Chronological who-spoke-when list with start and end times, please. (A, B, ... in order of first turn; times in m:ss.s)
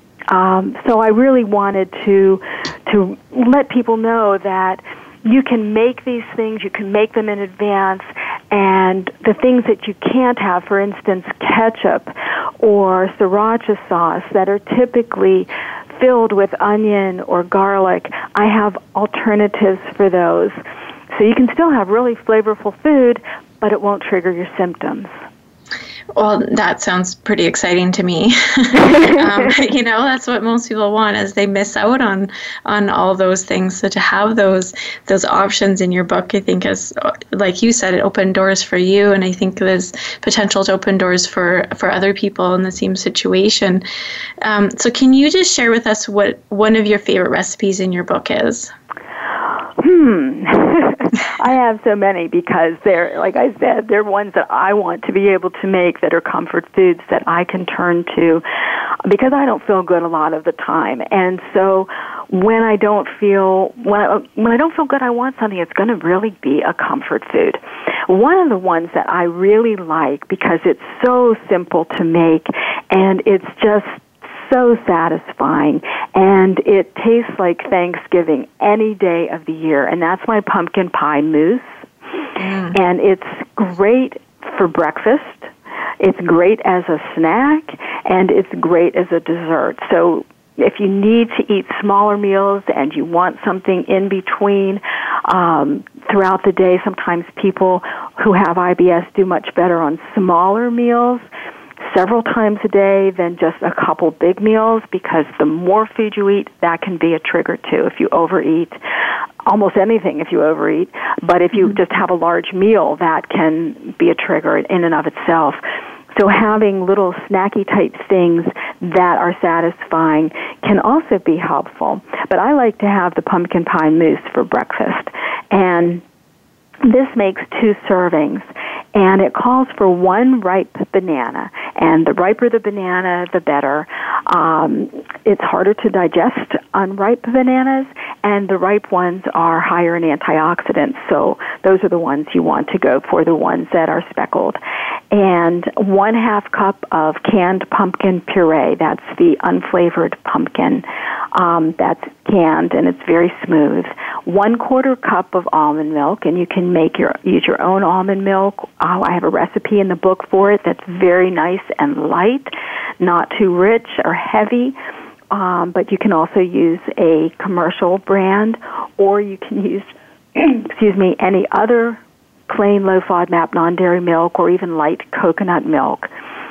0:00.3-0:20.5 A
0:21.1-0:25.1 A
0:26.1-0:43.8 B
0:28.8-0:29.5 A
0:44.4-0:48.7 B
0:49.8-0:58.4 A
0:59.0-1:21.8 A
1:22.4-1:22.7 B
1:22.7-1:41.2 A
1:41.8-1:48.8 A
1:49.4-1:55.6 A
1:56.1-2:06.0 A
2:06.8-2:24.6 A
2:25.1-2:44.8 A
2:45.3-2:56.1 A